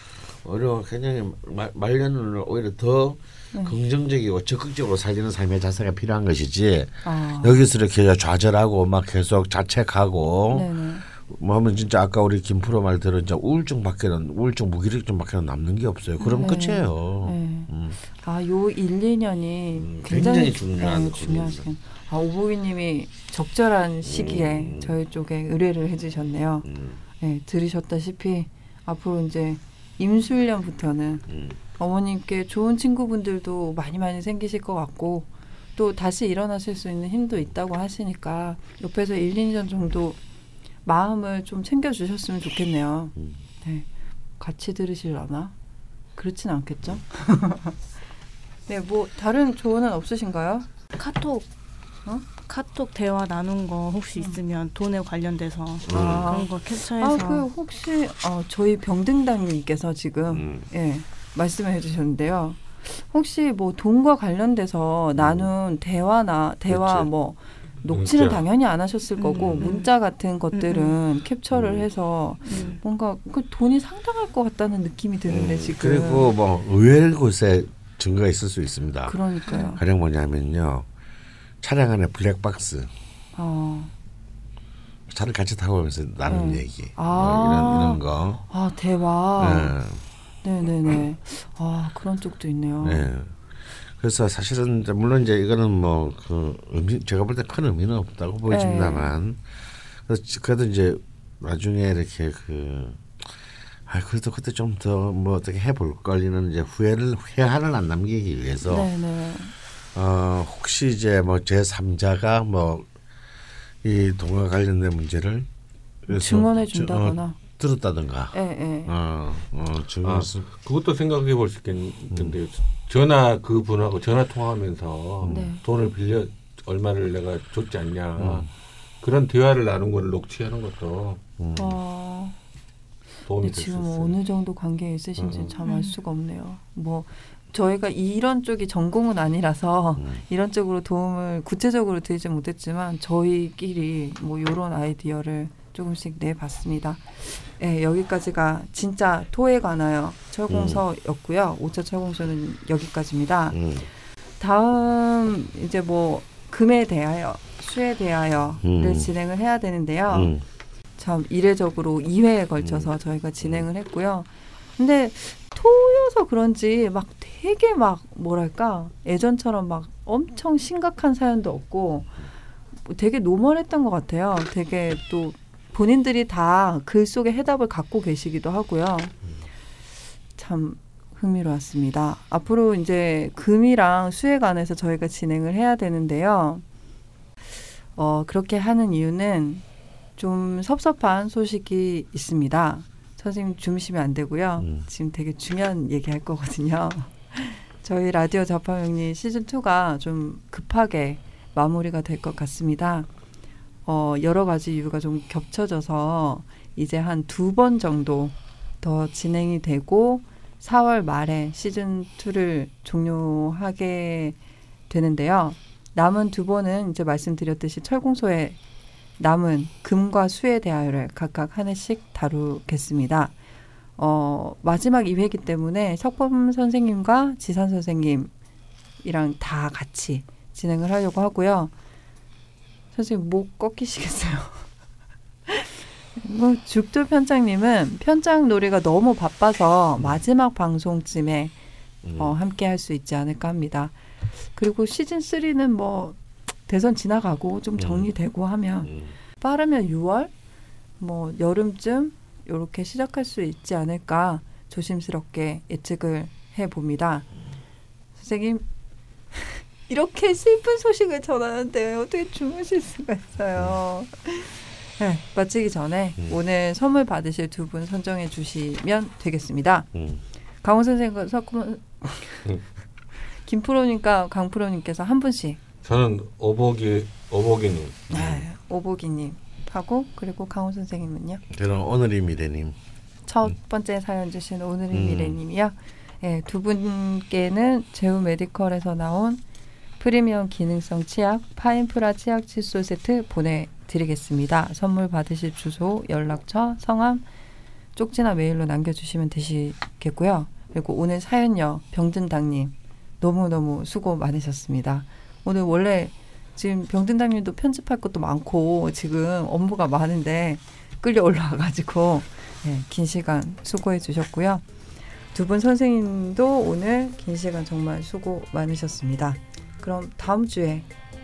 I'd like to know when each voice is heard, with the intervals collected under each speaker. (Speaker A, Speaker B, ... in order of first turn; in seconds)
Speaker A: 0.4-18.0, 19.7-21.7, 24.0-24.9, 26.6-27.0, 31.3-31.6, 43.1-43.4, 55.9-56.3, 60.3-60.7, 65.2-65.5, 66.7-67.1, 69.3-69.7, 71.5-71.9, 72.5-72.8, 75.3-79.2, 79.8-80.9, 81.6-82.9, 85.1-88.4, 89.4-90.0, 92.8-99.4, 100.0-103.3, 103.9-108.9, 109.9-112.9, 113.8-115.5, 116.0-120.5, 122.1-122.4, 125.2-125.5, 128.2-128.5, 131.4-131.8, 140.0-140.2, 150.5-150.8, 153.5-153.9, 158.6-159.1, 160.1-160.4, 162.6-163.6, 194.6-194.8, 242.0-242.3, 247.8-248.1, 248.8-249.1, 269.9-270.2, 278.1-278.4, 281.5-282.8, 284.9-285.4
Speaker B: 7.0-7.6, 10.5-11.1, 16.2-26.7, 27.2-31.2, 31.8-40.2, 40.8-43.9, 44.4-45.5, 46.2-47.8, 48.7-50.7, 55.9-76.3, 79.1-79.8, 83.3-83.9, 86.3-89.7, 90.4-93.1, 98.5-99.1, 108.6-109.5, 116.1-117.4, 118.3-118.9, 125.3-125.6, 131.6-132.3, 133.4-153.6, 154.4-160.3, 161.0-172.2, 172.8-179.1, 180.3-186.6, 187.9-189.6, 190.2-203.1, 203.8-214.4, 214.9-218.6, 219.2-223.3, 224.0-228.3, 229.0-231.7, 232.9-234.7, 235.5-241.5, 242.2-243.9, 244.5-250.3, 251.0-257.3, 258.1-258.6, 259.3-269.9, 270.6-272.5, 273.4-275.6, 278.1-281.4, 283.3-289.4, 290.0-297.2, 297.9-314.6, 315.3-320.9
Speaker C: 51.0-51.5, 52.4-57.5, 69.2-69.9, 70.5-71.0, 72.4-72.7, 79.5-79.7, 135.6-135.9
Speaker D: 67.9-68.4, 120.0-128.5, 129.0-131.2, 133.2-134.2, 135.2-135.5, 275.8-278.0